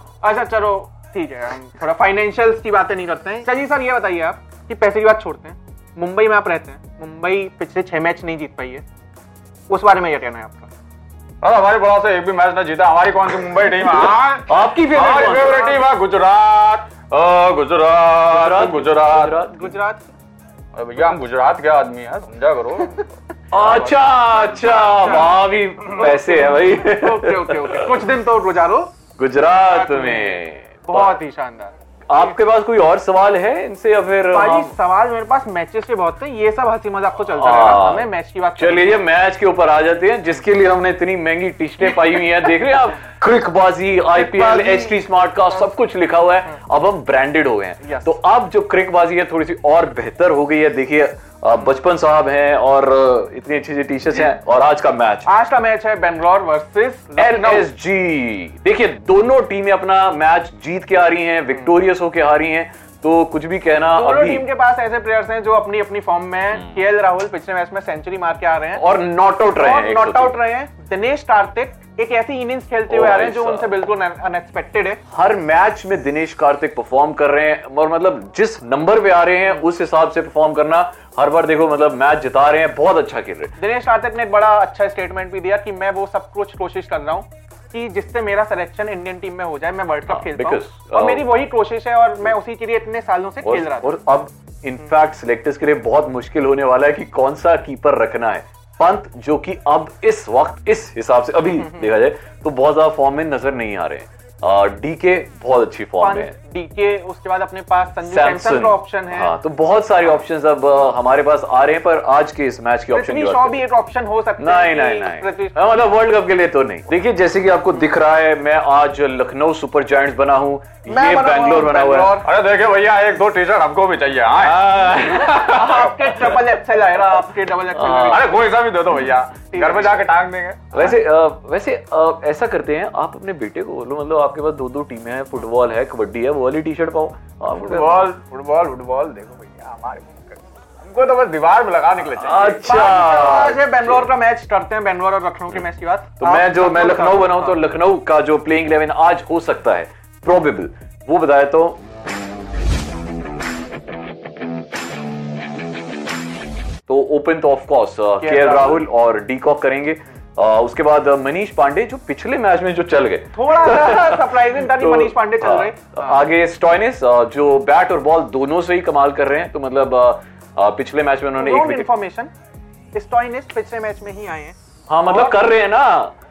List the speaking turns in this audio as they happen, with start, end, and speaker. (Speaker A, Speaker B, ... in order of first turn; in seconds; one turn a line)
Speaker A: 0.2-8.8
Speaker A: 9.7-10.7
Speaker B: 11.4-19.4
Speaker C: 14.5-15.8
Speaker C: 18.3-19.7
Speaker A: 19.5-20.1
Speaker B: 20.7-24.0
Speaker C: 23.5-27.9
Speaker A: 24.7-28.9
Speaker C: 29.2-31.2
Speaker A: 29.6-32.3
Speaker C: 32.1-34.7
Speaker A: 34.3-39.0
Speaker C: 37.2-55.3
Speaker A: 44.1-45.0
Speaker A: 55.2-57.7
Speaker C: 57.2-64.5
Speaker A: 63.9-68.8
Speaker C: 68.7-70.4
Speaker A: 69.5-75.0
Speaker C: 72.9-73.7
Speaker C: 75.1-83.5
Speaker A: 83.6-93.9
Speaker C: 90.1-91.3
Speaker C: 93.4-106.3
Speaker A: 106.0-109.3
Speaker C: 108.1-113.6
Speaker A: 112.9-115.8
Speaker C: 114.4-122.2
Speaker A: 120.9-122.3
Speaker B: 122.2-124.6
Speaker C: 124.4-126.4
Speaker A: 125.2-128.3
Speaker C: 127.7-128.2
Speaker B: 128.1-130.8
Speaker A: 129.5-129.9
Speaker C: 130.7-138.1
Speaker B: 137.6-142.7
Speaker C: 142.1-144.1
Speaker A: 142.6-147.6
Speaker C: 146.2-151.8
Speaker C: 156.9-171.9
Speaker A: 158.2-158.8
Speaker A: 163.3-166.2
Speaker A: 171.4-172.3
Speaker A: 172.9-174.6
Speaker C: 174.9-176.1
Speaker A: 175.1-175.4